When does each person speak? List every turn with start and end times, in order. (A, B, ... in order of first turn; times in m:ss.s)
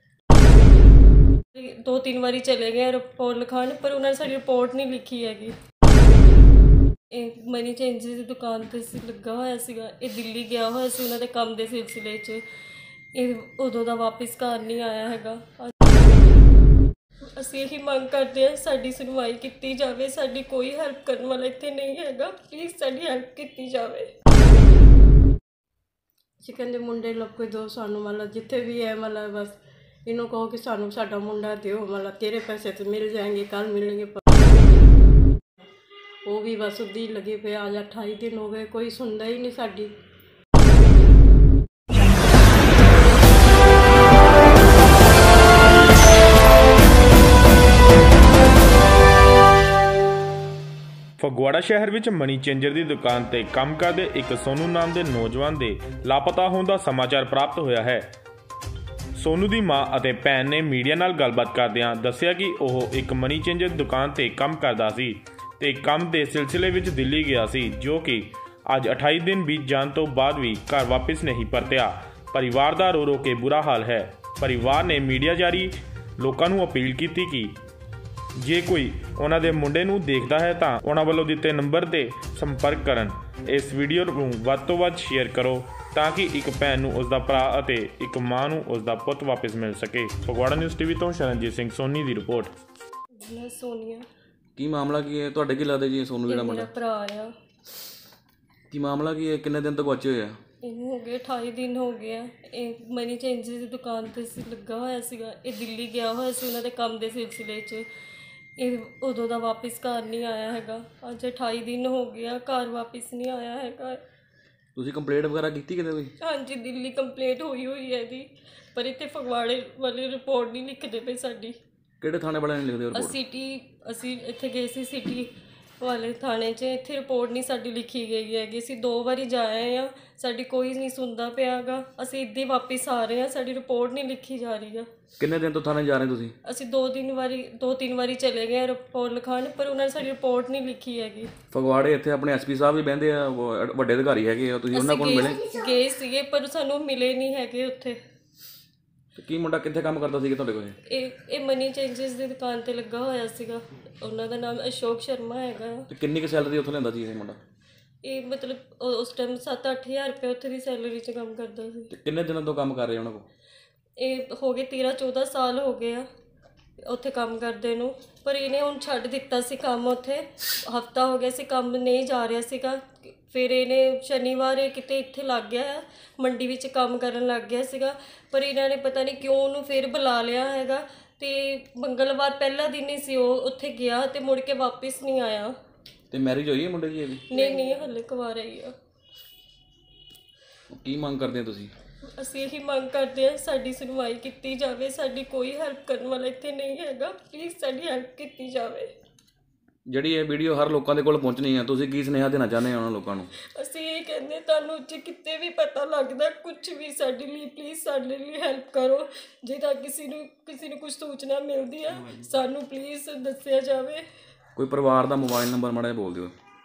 0:01.5-0:05.6 A
0:07.1-0:12.4 A
0:13.1-0:15.9 A
0:17.3-0:24.1 A
0:26.4-0:34.3 B
0:36.3-0:39.9 B
0:51.2-0:58.1 C
0:59.2-1:17.5 C
1:18.4-1:32.5 C
1:33.1-1:34.1 A
1:34.6-1:36.7 D
1:36.3-1:37.3 A
1:38.7-1:40.4 D
1:40.6-1:47.9 A
1:48.6-1:54.0 A
1:54.8-1:56.1 D
1:56.2-2:01.6 A
2:02.0-2:03.2 D
2:02.9-2:14.9 A
2:15.2-2:16.3 D
2:16.4-2:21.3 A
2:21.5-2:25.5 D
2:24.7-2:28.0 A
2:29.2-2:30.8 D
2:30.9-2:35.9 A
2:35.9-2:37.4 D
2:38.0-2:41.9 A
2:41.9-2:43.3 D
2:44.0-2:46.1 A
2:46.8-3:05.6 A
3:06.1-3:07.2 D
3:07.3-3:08.7 A
3:07.3-3:07.7 B
3:10.7-3:11.7 D
3:12.0-3:18.9 A
3:19.9-3:23.3 D
3:23.5-3:34.0 A
3:34.6-3:36.4 D